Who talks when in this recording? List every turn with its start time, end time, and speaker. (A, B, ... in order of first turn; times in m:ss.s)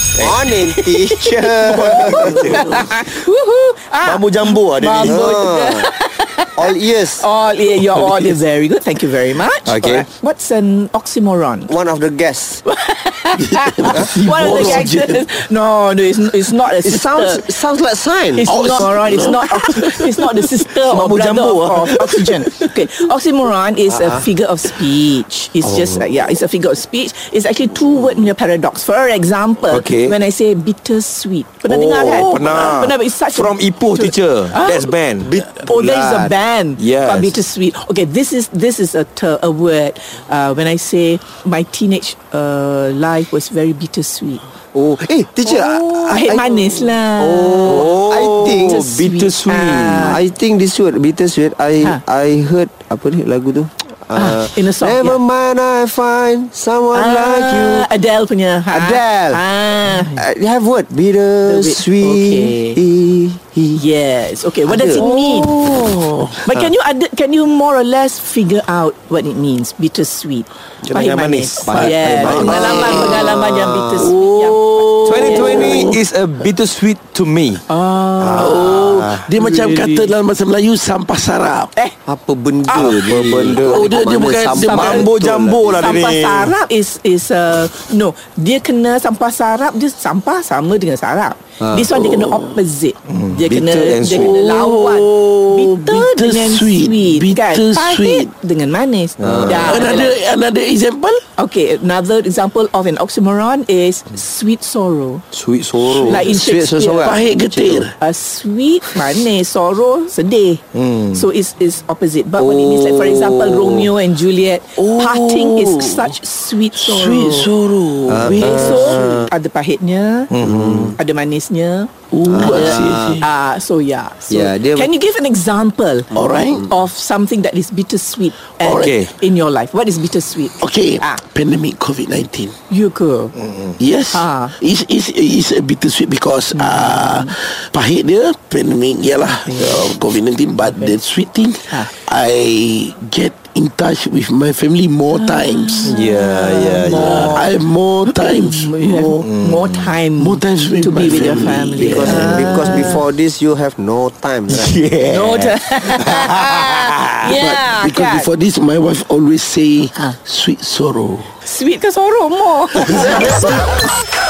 0:00.2-0:00.4 A
0:00.2-0:02.6 B
0:00.7-0:11.8 C
0:01.7-0:02.9 D
0:02.2-0:02.7 A
0:04.0-0:05.2 A
0:05.0-0:05.9 B
0:06.6-0:07.3 B
0:09.7-0:10.1 A
0:11.7-0:12.6 B
0:12.6-0:17.6 C
0:13.4-0:15.3 D
0:13.9-0:14.8 B
0:16.8-0:18.7 B
0:18.3-0:35.0 C
0:18.4-0:20.5 D
0:21.0-0:21.4 A
0:21.2-0:21.5 B
0:23.9-0:24.3 B
0:29.7-0:30.2 A
0:31.7-0:35.6 A
0:35.2-0:36.3 B
0:35.6-0:44.4 C
0:36.8-0:37.4 A
0:44.7-0:48.8 B
0:45.4-0:48.0 C
0:47.7-0:50.2 A
0:48.6-0:50.2 C
0:50.0-0:57.9 B
0:54.1-0:55.2 C
0:56.9-1:00.2 C
0:58.7-0:59.4 B
1:00.0-1:03.8 B
1:01.5-1:02.8 C
1:03.8-1:05.6 C
1:04.7-1:05.1 B
1:05.0-1:06.4 D
1:06.4-1:16.0 C
1:10.9-1:14.1 B
1:10.9-1:13.4 A
1:12.7-1:13.1 D
1:14.0-1:16.0 D
1:15.0-1:17.6 A
1:17.7-1:20.1 C
1:18.2-1:19.0 B
1:18.2-1:19.2 A
1:18.3-1:21.7 D
1:22.1-1:26.1 B
1:22.7-1:24.0 A
1:23.5-1:25.0 D
1:24.5-1:25.1 C
1:24.6-1:26.5 A
1:25.8-1:40.2 C
1:32.0-1:32.5 D
1:33.1-1:34.4 A
1:34.1-1:38.3 D
1:39.2-1:39.8 A
1:39.2-1:39.5 B
1:39.5-1:41.2 D
1:41.4-1:45.2 C
1:45.3-1:46.3 A
1:45.7-1:47.9 B
1:46.1-1:47.2 C
1:47.0-1:47.9 D
1:48.0-1:57.5 C
1:50.7-1:51.2 A
1:52.4-1:53.8 B
1:54.8-1:56.2 D
1:56.7-1:59.1 D
1:58.1-1:59.3 B
1:58.2-2:00.3 C
2:00.3-2:01.0 A
2:00.4-2:01.0 B
2:01.0-2:11.2 C
2:02.1-2:03.3 D
2:02.3-2:03.2 B
2:04.3-2:04.9 B
2:06.1-2:06.7 D
2:06.2-2:06.6 B
2:08.6-2:09.0 D
2:08.7-2:09.1 A
2:10.6-2:12.6 D
2:12.7-2:13.4 C
2:13.4-2:13.8 A
2:13.8-2:26.0 D
2:14.1-2:14.6 C
2:16.5-2:17.4 C
2:19.4-2:19.9 C
2:20.6-2:21.0 C
2:21.7-2:22.0 C
2:25.1-2:33.0 C
2:25.8-2:27.4 A
2:26.9-2:29.3 D
2:29.2-2:30.0 A
2:30.2-2:32.6 D
2:31.8-2:34.8 B
2:34.5-2:37.4 A
2:35.0-2:38.3 C
2:37.3-2:41.3 D
2:41.4-2:43.9 C
2:43.0-2:43.3 D
2:43.0-2:43.5 A